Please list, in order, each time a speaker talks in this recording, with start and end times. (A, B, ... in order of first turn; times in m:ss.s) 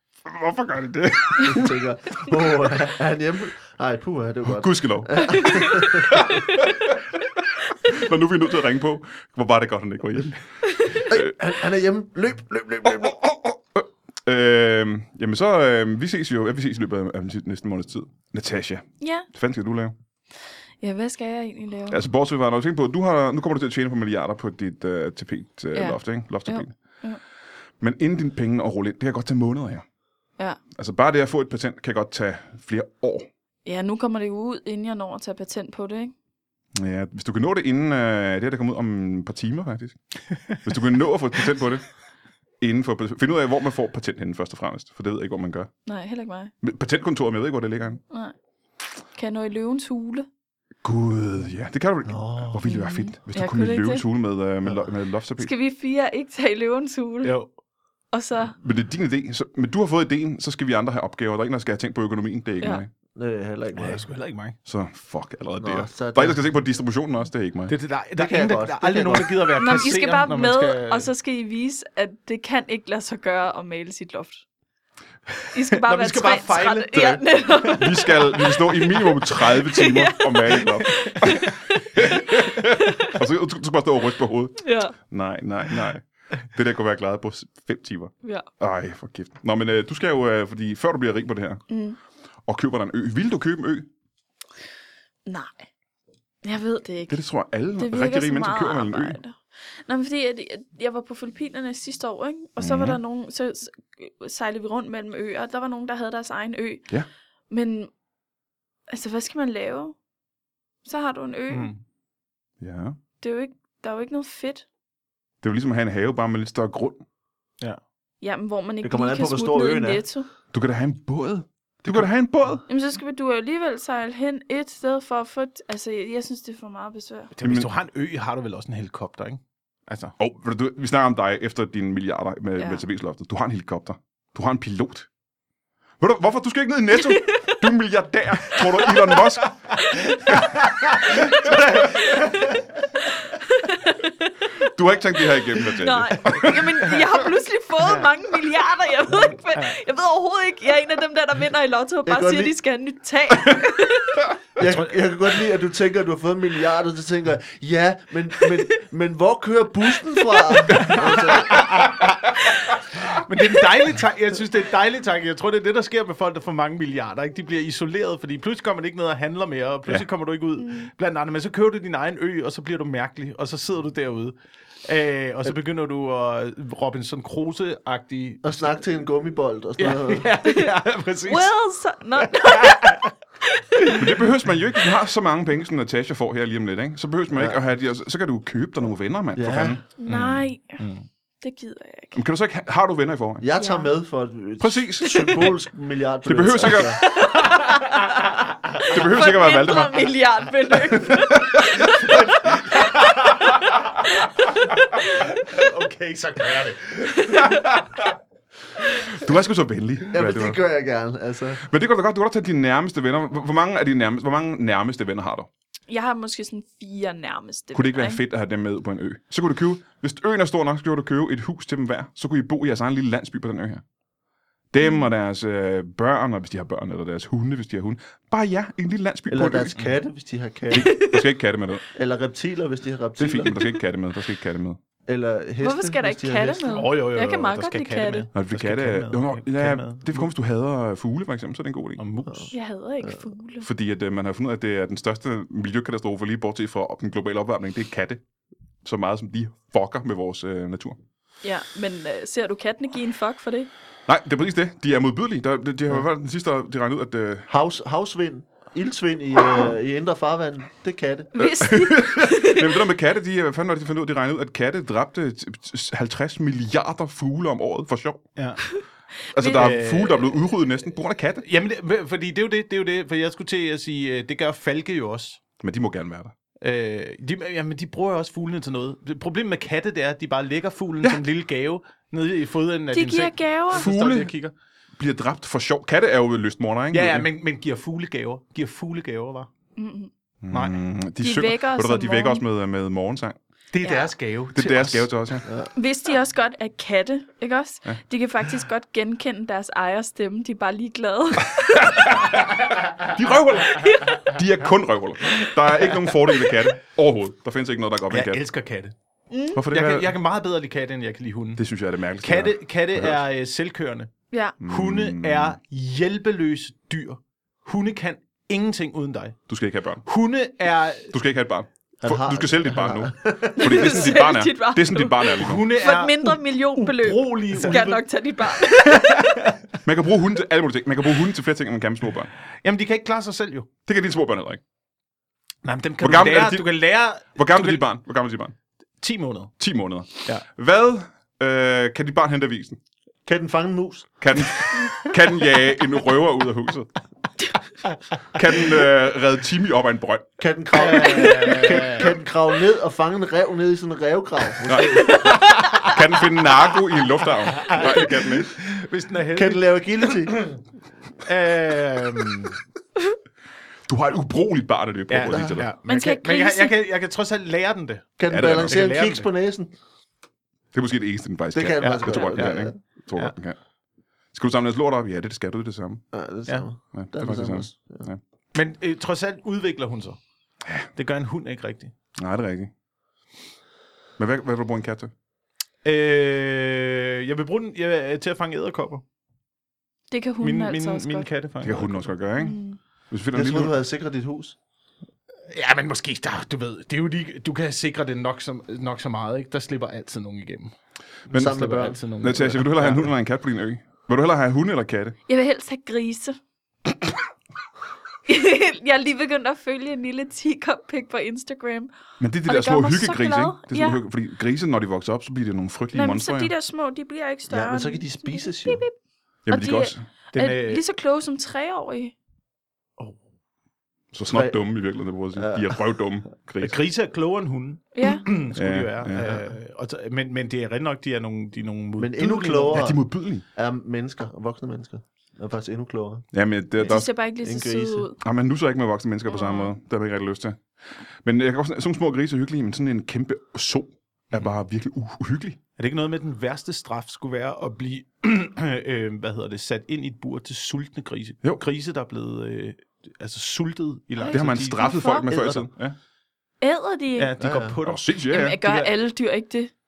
0:00.2-0:01.7 A
0:01.4-0:06.2 B
0:04.5-0:07.0 A
0:05.4-0:05.7 C
0:07.8-0:11.3 A
0:11.1-0:13.2 B
0:12.8-0:20.0 A
0:19.0-0:19.3 C
0:20.8-0:22.0 C
0:21.9-0:26.8 A
0:25.7-0:27.2 C
0:27.8-0:29.8 A
0:30.8-0:33.3 A
0:33.6-0:36.1 C
0:36.8-0:41.9 A
0:42.6-0:45.7 A
0:45.9-0:46.5 C
0:46.6-0:48.0 A
0:48.1-0:48.4 C
0:49.1-0:50.3 C
0:50.8-0:55.5 A
0:52.1-0:52.6 B
0:52.6-0:54.0 C
0:55.4-0:57.4 C
0:57.2-0:57.5 D
0:58.1-0:58.6 C
0:58.6-1:02.9 A
1:03.2-1:04.0 B
1:03.8-1:04.6 D
1:04.6-1:07.7 A
1:05.6-1:06.4 B
1:07.7-1:11.1 D
1:08.2-1:09.5 B
1:09.6-1:14.4 C
1:15.5-1:18.4 C
1:15.7-1:18.1 D
1:17.8-1:31.6 A
1:19.2-1:22.2 C
1:22.8-1:23.1 C
1:24.6-1:25.0 C
1:28.2-1:28.5 C
1:31.7-1:32.0 C
1:32.5-1:33.9 A
1:35.3-1:35.7 C
1:36.4-1:37.2 C
1:37.1-1:39.2 A
1:37.8-1:46.9 C
1:42.6-1:43.0 A
1:47.5-1:47.9 C
1:48.9-1:50.0 C
1:50.8-1:51.7 C
1:51.5-1:51.8 D
1:52.6-1:53.0 A
1:53.2-1:54.6 C
1:55.4-1:57.0 A
1:58.2-2:00.3 C
1:58.8-2:00.0 B
2:00.5-2:02.6 A
2:02.7-2:07.3 C
2:07.3-2:10.2 D
2:07.4-2:07.7 A
2:10.2-2:15.1 A
2:12.6-2:12.8 C
2:16.0-2:19.5 A
2:17.1-2:17.5 C
2:19.4-2:22.6 D
2:21.2-2:22.4 C
2:21.3-2:21.9 A
2:23.5-2:24.5 C
2:24.6-2:26.6 A
2:25.6-2:34.3 C
2:26.3-2:27.0 D
2:27.8-2:28.1 D
2:32.0-2:32.5 B
2:34.6-2:41.8 B
2:34.6-2:34.9 D
2:40.3-2:40.9 C
2:41.2-2:42.3 D
2:42.9-2:54.3 D
2:50.6-2:50.9 C
2:54.9-2:58.5 D
2:58.4-3:00.3 B
2:59.8-3:01.5 D
3:01.3-3:03.0 C
3:02.2-3:03.1 D
3:04.0-3:10.4 A
3:07.3-3:07.6 B
3:09.4-3:09.8 B
3:10.0-3:10.8 C
3:10.1-3:11.0 D
3:11.4-3:12.2 C
3:12.1-3:13.4 A
3:13.4-3:17.0 B
3:13.6-3:13.9 C
3:14.6-3:15.5 A
3:16.3-3:17.0 A
3:17.1-3:18.1 C
3:17.2-3:17.5 D
3:18.8-3:22.5 C
3:18.9-3:20.1 A
3:21.0-3:22.2 A
3:22.1-3:24.0 D
3:24.9-3:27.6 D
3:29.0-3:30.6 A
3:30.1-3:31.6 B
3:31.7-3:35.5 A
3:35.9-3:38.2 C
3:37.7-3:43.8 A
3:44.7-3:49.8 A
3:44.8-3:45.1 C
3:49.3-3:51.1 B
3:50.7-3:51.8 A
3:50.8-3:51.2 C
3:51.9-3:53.6 B
3:53.2-3:54.8 A
3:55.1-3:56.9 B
3:55.6-3:58.3 C
3:56.7-4:00.3 D
3:58.3-4:02.0 A
4:02.0-4:02.5 D
4:02.3-4:03.2 B
4:02.5-4:03.7 C
4:03.6-4:08.2 A
4:08.8-4:11.0 A
4:11.4-4:13.7 C
4:14.1-4:17.5 A
4:17.5-4:21.4 B
4:21.4-4:22.8 C
4:21.4-4:28.2 A
4:28.4-4:28.6 D
4:29.3-4:31.4 A
4:29.4-4:29.7 C
4:29.5-4:30.3 D
4:31.4-4:35.4 D
4:35.6-4:36.3 A
4:36.6-4:44.5 D
4:42.9-4:43.9 C
4:43.7-4:44.3 A
4:45.0-4:47.3 A
4:46.9-4:49.5 D
4:49.8-4:50.1 C
4:50.4-4:53.4 A
4:50.5-4:50.8 D
4:51.2-4:52.4 C
4:53.7-4:55.1 D
4:53.8-4:54.1 C
4:54.6-4:55.5 A
4:55.4-4:55.7 B
4:55.8-5:02.3 C
5:03.0-5:08.4 A
5:03.8-5:04.2 C
5:05.8-5:06.1 D
5:08.1-5:08.9 D
5:09.3-5:09.6 C
5:09.5-5:10.2 A
5:09.7-5:11.6 D
5:11.6-5:13.2 A
5:12.2-5:19.4 D
5:14.6-5:15.6 A
5:19.5-5:20.1 A
5:20.1-5:21.1 D
5:21.1-5:25.7 A
5:22.0-5:24.2 B
5:23.6-5:29.3 C
5:25.4-5:29.6 D
5:29.8-5:32.3 A
5:32.6-5:33.7 D
5:33.9-5:34.6 A
5:35.6-5:37.8 D
5:36.0-5:36.7 A
5:37.4-5:38.5 A
5:39.0-5:39.5 D
5:39.6-5:42.8 A
5:43.3-5:44.1 B
5:44.2-5:46.9 A
5:48.3-5:50.3 A
5:50.4-5:55.4 B
5:50.7-5:52.1 D
5:54.7-5:55.2 A
5:55.1-5:56.0 D
5:55.8-5:58.5 A
5:57.5-6:00.2 D
5:59.3-6:00.6 B
6:01.2-6:02.6 D
6:03.9-6:05.7 A
6:05.1-6:09.3 D
6:05.2-6:05.6 B
6:05.9-6:06.7 C
6:08.2-6:09.7 B
6:08.3-6:08.8 A
6:10.7-6:13.6 A
6:11.5-6:12.8 B
6:11.8-6:13.3 D
6:14.3-6:16.0 A
6:16.1-6:18.1 B
6:16.9-6:18.2 A
6:18.5-6:20.2 D
6:21.0-6:21.9 D
6:22.2-6:22.7 A
6:24.2-6:25.1 A
6:25.8-6:29.0 D
6:30.1-6:31.3 C
6:30.4-6:32.1 D
6:31.6-6:32.6 A
6:32.4-6:32.8 C
6:33.1-6:33.8 A
6:33.3-6:34.6 B
6:35.5-6:40.7 D
6:41.3-6:43.1 D
6:41.3-6:42.0 B
6:42.2-6:45.2 A
6:45.3-6:46.4 C
6:48.3-6:51.9 C
6:52.2-6:56.5 A
6:52.5-6:54.0 C
6:55.9-6:58.9 C
6:57.5-6:58.8 B
6:59.5-7:00.0 A
6:59.5-7:02.1 C
7:00.3-7:00.8 D
7:04.1-7:06.8 A
7:04.3-7:04.6 B
7:05.4-7:05.8 B
7:06.6-7:12.9 D
7:08.0-7:08.3 C
7:08.5-7:09.5 A
7:12.0-7:13.0 B
7:12.7-7:13.4 A
7:13.5-7:16.3 B
7:16.3-7:17.1 A
7:16.8-7:18.2 C
7:16.8-7:18.1 B
7:18.2-7:20.6 A
7:19.3-7:19.7 C
7:21.2-7:25.6 A
7:25.8-7:35.7 D
7:34.2-7:35.3 C
7:34.3-7:36.0 A
7:36.6-7:37.4 C
7:37.2-7:38.9 D
7:37.4-7:37.8 B
7:37.8-7:38.6 A
7:38.3-7:39.7 C